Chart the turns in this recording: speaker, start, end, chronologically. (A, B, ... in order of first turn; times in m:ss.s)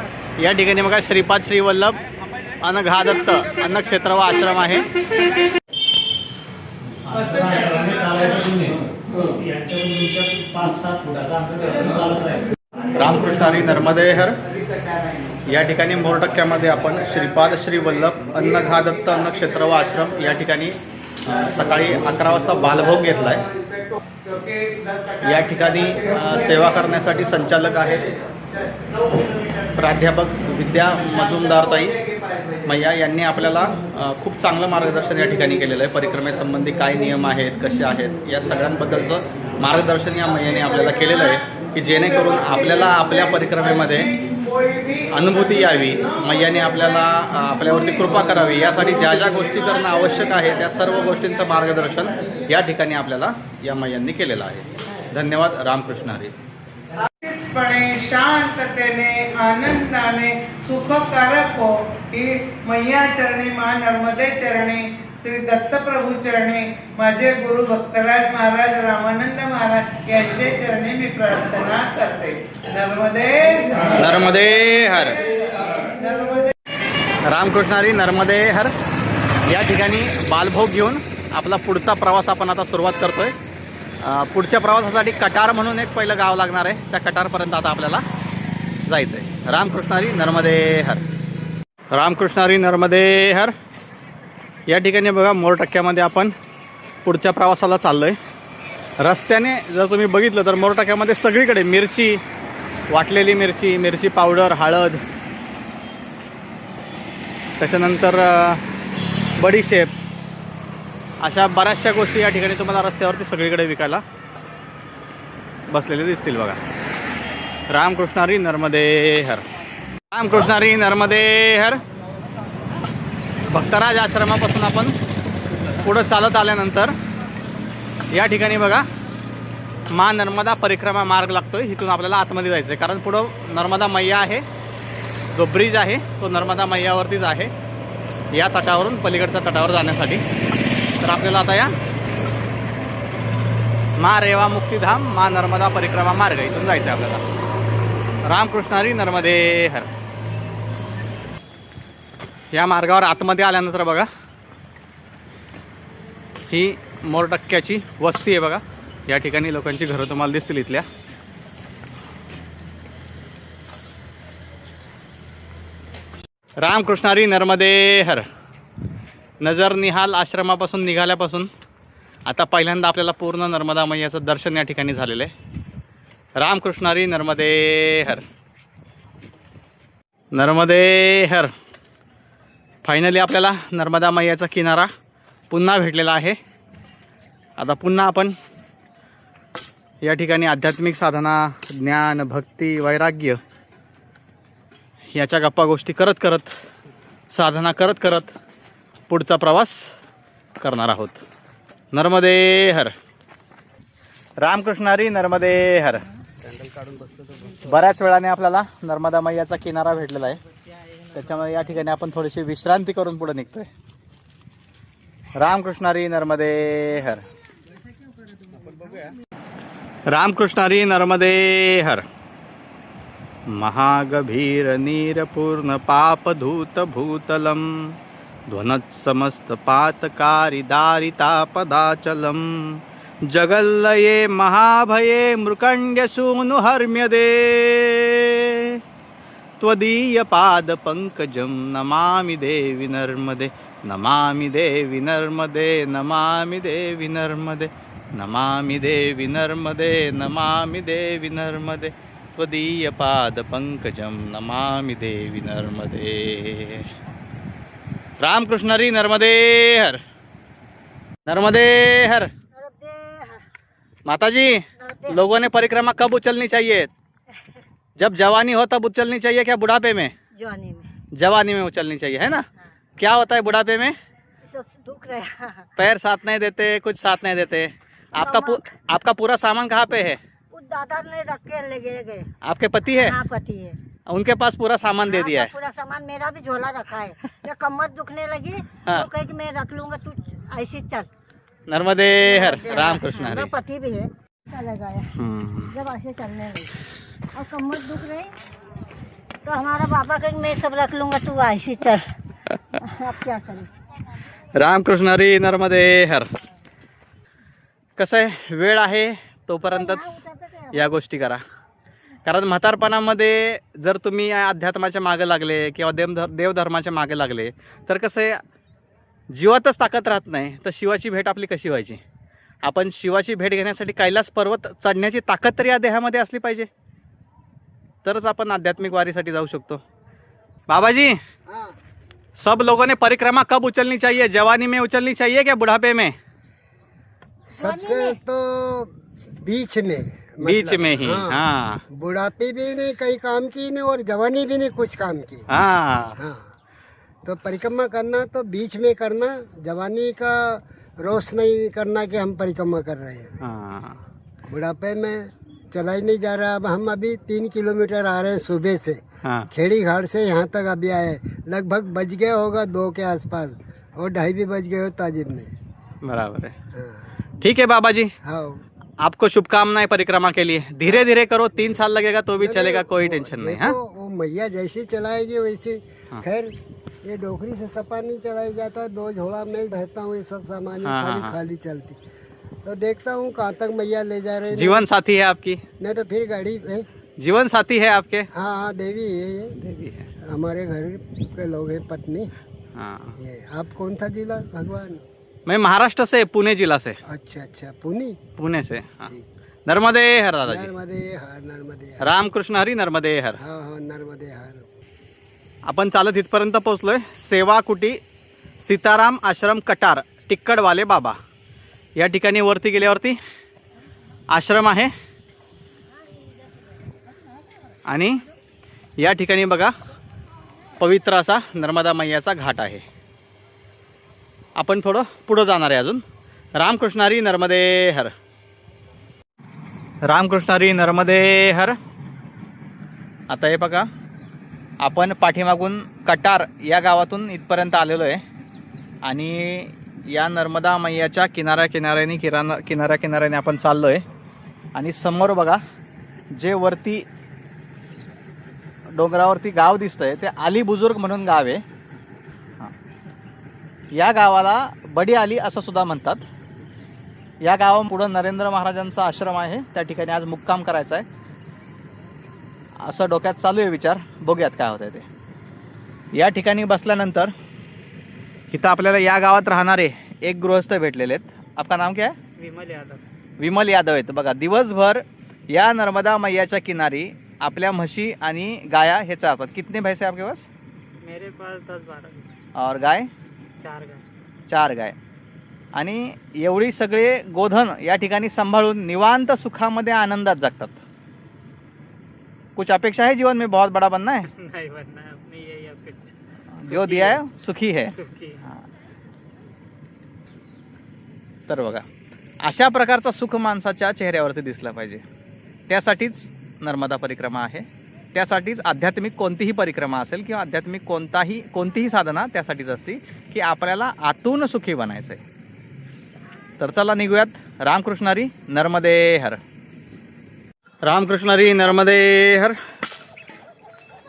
0:00.4-0:02.0 A
0:02.6-0:04.8 A
0:07.1-0:08.8 A
0:09.3-0:12.4 A
0:09.4-0:10.2 B
0:11.0-0:11.4 B
0:12.9-0:14.4 A
0:15.4-0:23.4 A
0:25.2-0:28.1 A
0:29.7-0:32.0 A
0:32.6-0:44.2 A
0:45.1-0:56.3 A
0:57.2-1:13.8 C
1:13.9-1:15.3 A
1:16.0-1:16.5 C
1:17.2-1:18.7 A
1:19.5-1:23.3 A
1:24.0-1:28.0 A
1:28.9-1:31.0 A
1:31.9-1:33.5 A
1:34.7-1:36.3 A
1:37.0-1:38.2 A
1:39.0-1:42.2 A
1:42.9-1:45.0 A
1:47.6-1:48.6 A
1:49.4-1:49.9 A
1:51.2-1:54.0 A
1:55.7-1:56.6 A
1:57.7-1:59.4 A
2:00.1-2:01.8 A
2:03.5-2:05.0 A
2:05.8-2:06.9 A
2:08.1-2:08.8 A
2:09.9-2:14.4 A
2:15.3-2:17.5 A
2:18.3-2:20.2 A
2:21.0-2:21.7 A
2:24.0-2:27.2 A
2:28.3-2:29.9 A
2:32.5-2:34.1 A
2:36.5-2:40.8 A
2:46.6-2:48.2 A
2:49.4-2:51.5 A
2:52.2-2:55.3 A
2:56.4-2:58.2 A
3:00.3-3:01.5 A
3:02.8-3:04.9 A
3:05.5-3:06.4 A
3:07.6-3:08.3 A
3:10.0-3:13.4 A
3:15.1-3:16.5 A
3:17.3-3:18.3 A
3:19.1-3:19.9 A
3:20.6-3:21.2 A
3:21.9-3:22.9 A
3:24.4-3:26.0 A
3:26.4-3:27.6 D
3:27.6-3:30.4 A
3:31.1-3:33.7 A
3:35.4-3:37.2 A
3:40.1-3:42.0 A
3:43.5-3:58.8 A
3:59.6-4:16.9 A
4:18.2-4:20.0 A
4:21.2-4:22.3 A
4:22.5-4:23.4 E
4:24.0-4:26.9 A
4:24.8-4:25.4 E
4:28.0-4:30.1 A
4:30.3-4:30.9 E
4:31.1-4:32.4 A
4:33.0-4:34.0 A
4:34.4-4:35.7 E
4:35.8-4:40.2 A
4:38.2-4:38.8 E
4:40.5-4:42.3 E
4:42.4-4:43.2 A
4:42.8-4:43.8 E
4:44.0-4:45.5 A
4:45.0-4:51.1 E
4:51.7-4:53.5 A
4:52.2-4:55.1 E
4:55.2-4:55.7 A
4:55.7-4:56.7 E
4:57.3-4:58.3 E
4:59.4-5:02.1 E
5:02.7-5:03.7 E
5:04.5-5:06.3 A
5:08.0-5:10.2 A
5:09.7-5:10.9 E
5:10.7-5:11.4 A
5:12.2-5:18.4 A
5:19.3-5:22.0 A
5:22.6-5:26.7 A
5:28.0-5:29.8 A
5:30.7-5:31.2 A
5:31.5-5:31.7 D
5:32.4-5:36.1 A
5:37.5-5:38.2 E
5:37.5-5:45.5 D
5:40.4-5:41.8 A
5:45.5-5:46.2 A
5:46.2-5:46.4 D
5:47.2-5:53.3 D
5:53.4-5:54.0 A
5:54.5-5:59.0 D
5:59.2-5:59.5 A
5:59.5-6:05.5 D
6:06.0-6:06.5 A
6:06.7-6:07.1 D
6:07.4-6:08.1 A
6:08.2-6:08.6 D
6:09.0-6:13.8 A
6:12.4-6:16.5 D
6:17.0-6:22.0 D
6:20.8-6:21.4 A
6:22.6-6:24.8 D
6:24.5-6:25.6 A
6:25.8-6:26.9 D
6:27.2-6:28.3 A
6:28.3-6:29.6 D
6:29.6-6:30.1 A
6:30.2-6:32.3 D
6:32.8-6:33.2 A
6:33.2-6:35.0 D
6:35.5-6:37.0 A
6:37.0-6:38.2 D
6:38.4-6:39.1 A
6:39.6-6:40.7 A
6:40.4-6:42.1 D
6:42.0-6:43.4 A
6:43.4-6:44.7 D
6:45.6-6:48.0 A
6:48.6-6:51.2 A
6:52.0-6:53.2 A
6:54.3-6:54.9 A
6:57.9-6:58.2 A
6:59.0-6:59.7 A
7:00.8-7:02.8 A
7:04.6-7:06.0 A
7:06.6-7:08.1 A
7:10.0-7:11.8 A
7:13.3-7:13.9 A
7:14.8-7:18.2 A
7:19.0-7:24.0 A
7:24.7-7:25.6 A
7:26.3-7:27.1 A
7:28.9-7:31.6 A
7:33.9-7:36.2 A
7:37.4-7:41.0 A
7:42.8-7:45.0 A
7:46.1-7:47.3 A
7:48.5-7:52.2 A
7:52.4-7:53.0 B
7:53.4-8:00.5 A
8:01.0-8:02.3 B
8:02.6-8:03.1 A
8:03.6-8:04.0 B
8:04.5-8:05.0 A
8:05.7-8:10.8 A
8:12.6-8:14.3 A
8:14.3-8:17.2 B
8:16.5-8:18.0 A
8:17.9-8:18.4 B
8:21.5-8:21.8 A
8:22.4-8:25.0 A
8:25.7-8:35.2 A
8:36.6-8:39.4 A
8:40.8-8:42.6 A